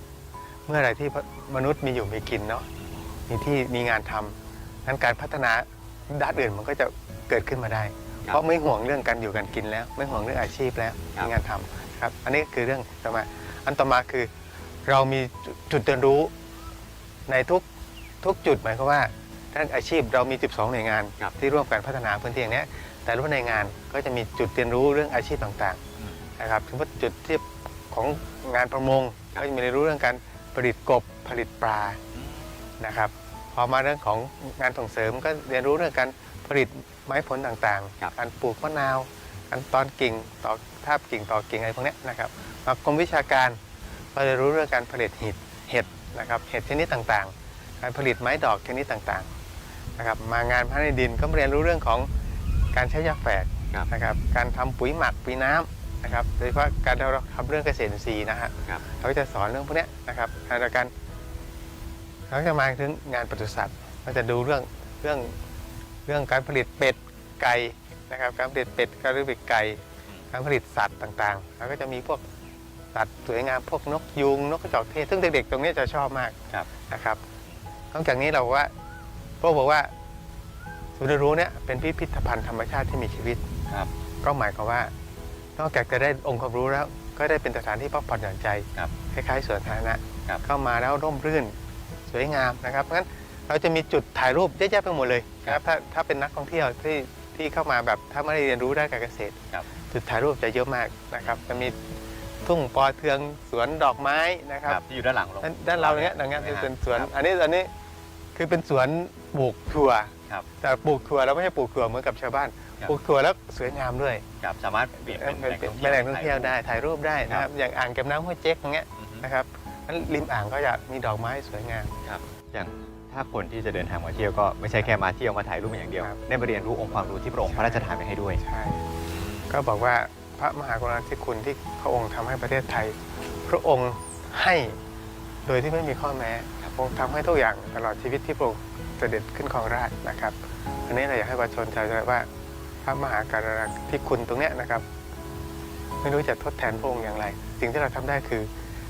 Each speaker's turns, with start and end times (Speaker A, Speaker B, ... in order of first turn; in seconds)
Speaker A: 0.7-2.6, 3.3-14.3, 14.9-16.3, 17.3-17.6, 18.2-25.8, 26.4-32.0, 32.8-43.6, 44.1-49.3, 50.0-52.1, 52.7-60.9, 62.3-65.3, 66.0-72.2, 72.9-77.2, 77.9-78.7, 79.4-79.9, 81.0-83.4, 84.2-84.9, 85.6-91.5, 92.1-101.8, 102.4-104.8, 105.4-107.7, 108.3-114.2, 115.0-121.9, 126.0-126.2, 127.4-128.9, 129.5-134.8, 135.5-142.3, 142.8-144.8, 146.0-148.5
Speaker B: 104.6-107.1, 114.4-116.5, 119.0-119.3, 122.0-128.4, 129.1-129.5